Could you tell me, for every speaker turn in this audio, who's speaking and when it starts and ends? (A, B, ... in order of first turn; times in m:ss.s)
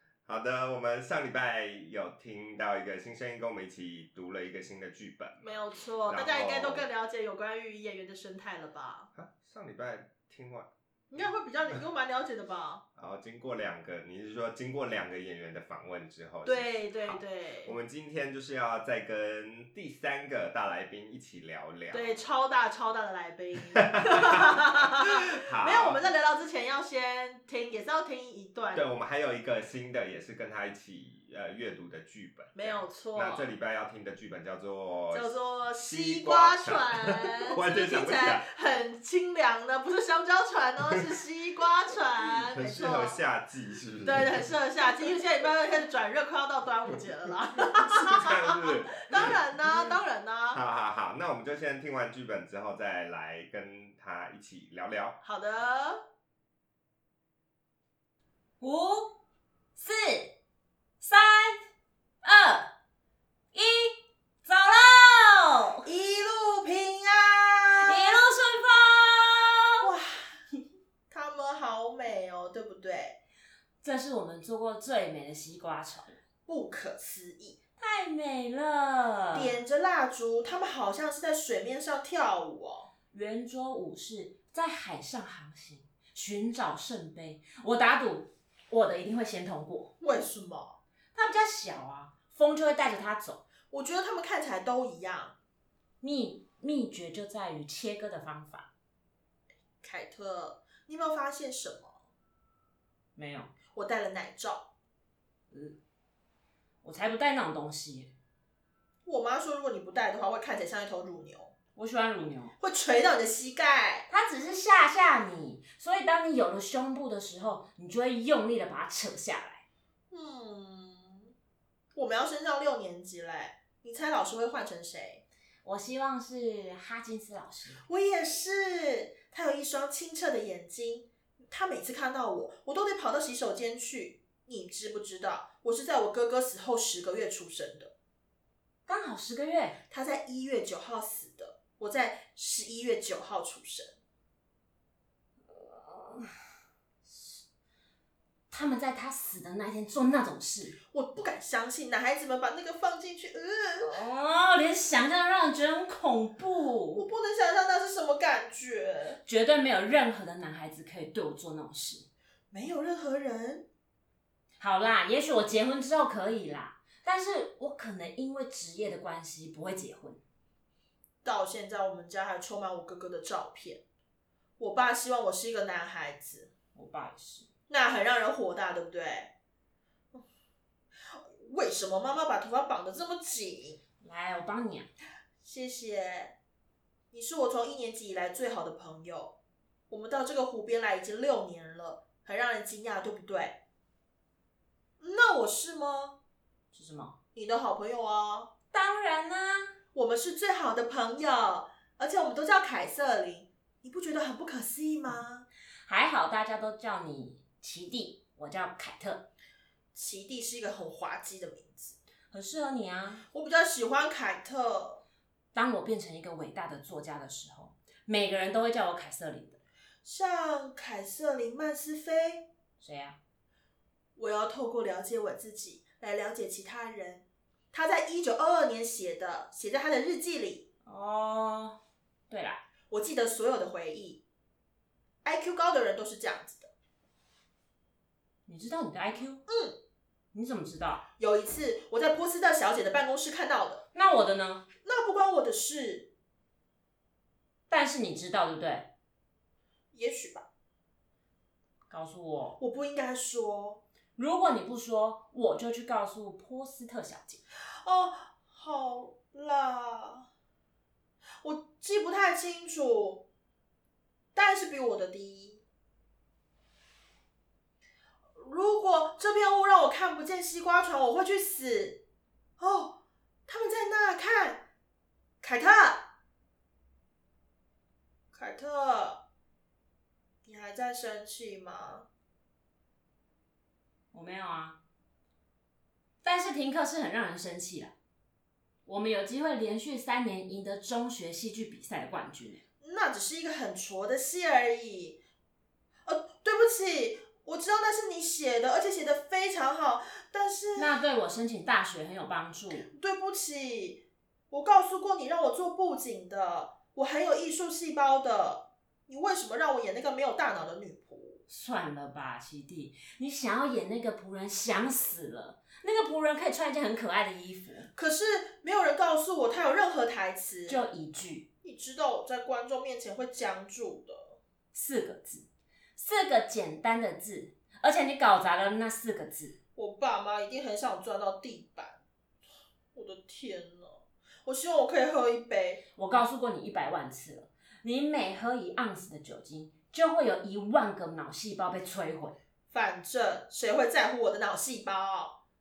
0:00.2-0:06.9 A
0:05.4-0:09.1 B
0:09.1-0:10.7 A
0:11.1-0:12.8 B
0:13.0-0:22.2 A
0:16.4-0:17.8 B
0:21.9-0:28.8 B
0:23.7-0:26.0 A
0:28.7-0:38.4 A
0:32.5-0:33.5 B
0:35.1-0:43.2 B
0:42.5-0:44.5 A
0:44.0-0:50.6 B
0:48.0-0:49.4 A
0:50.5-0:55.2 A
0:55.2-0:56.0 B
0:58.6-0:59.2 C
0:59.8-1:00.4 C
1:01.0-1:01.6 C
1:02.2-1:02.7 C
1:03.5-1:05.9 C
1:05.8-1:08.2 B
1:07.8-1:09.9 C
1:09.8-1:10.4 B
1:11.1-1:13.2 B
1:13.8-1:16.2 C
1:16.5-1:17.6 B
1:17.8-1:19.5 C
1:19.3-1:22.9 B
1:23.1-1:29.9 C
1:30.0-1:30.8 B
1:31.1-1:33.4 C
1:33.7-1:35.3 B
1:36.0-1:38.7 C
1:39.8-1:42.0 B
1:43.2-1:43.5 C
1:43.7-1:44.7 B
1:45.5-1:45.8 C
1:46.8-1:48.1 C
1:49.0-1:51.5 B
1:51.8-1:52.5 C
1:52.6-1:54.1 B
1:54.1-1:59.6 C
2:00.1-2:01.3 B
2:01.9-2:05.2 B
2:05.6-2:07.8 C
2:07.8-2:17.9 B
2:18.9-2:19.8 C
2:19.9-2:24.0 B
2:25.5-2:26.3 C
2:27.0-2:27.4 C
2:28.5-2:30.8 C
2:30.9-2:34.0 B
2:33.8-2:37.0 C
2:36.9-2:39.2 B
2:39.2-2:42.1 C
2:42.5-2:43.7 B
2:44.6-2:50.2 C
2:51.2-2:53.8 B
2:54.6-2:56.5 B
2:56.7-2:57.5 C
2:57.7-2:59.3 B
3:01.1-3:03.8 B
3:04.0-3:04.9 C
3:05.4-3:06.4 B
3:07.1-3:09.3 B
3:09.9-3:13.6 B
3:15.0-3:16.2 B
3:16.7-3:17.1 C
3:17.3-3:18.5 B
3:18.7-3:19.8 C
3:19.9-3:25.4 B
3:25.8-3:29.3 C
3:29.9-3:32.0 B
3:32.3-3:33.2 C
3:33.3-3:35.0 B
3:35.5-3:39.6 C
3:40.0-3:42.5 B
3:42.8-3:43.2 C
3:44.2-3:50.7 B
3:50.8-3:51.8 C
3:52.3-3:52.6 C
3:52.9-3:54.2 B
3:55.2-3:56.7 B
3:58.5-3:59.4 C
3:59.5-3:59.8 B
4:00.3-4:01.0 C
4:01.2-4:03.8 B
4:03.9-4:04.6 C
4:04.8-4:06.1 B
4:07.7-4:08.9 C
4:09.9-4:10.5 B
4:11.9-4:12.6 C
4:12.6-4:13.8 B
4:14.2-4:17.4 C
4:17.8-4:20.3 B
4:21.4-4:23.3 B
4:24.3-4:25.6 B
4:28.3-4:32.0 B
4:32.6-4:34.6 B
4:35.4-4:36.1 B
4:38.3-4:39.2 B
4:40.4-4:42.1 B
4:44.1-4:44.8 C
4:46.2-4:47.9 C
4:48.8-4:52.6 C
4:52.8-4:55.2 B
4:56.0-5:01.0 B
5:00.8-5:02.9 C
5:02.9-5:11.4 B
5:11.5-5:17.9 C
5:17.9-5:20.8 B
5:20.7-5:21.4 C
5:21.6-5:24.4 B
5:24.7-5:29.6 C
5:29.8-5:32.0 B
5:32.9-5:35.8 B
5:36.0-5:42.4 C
5:42.7-5:45.4 B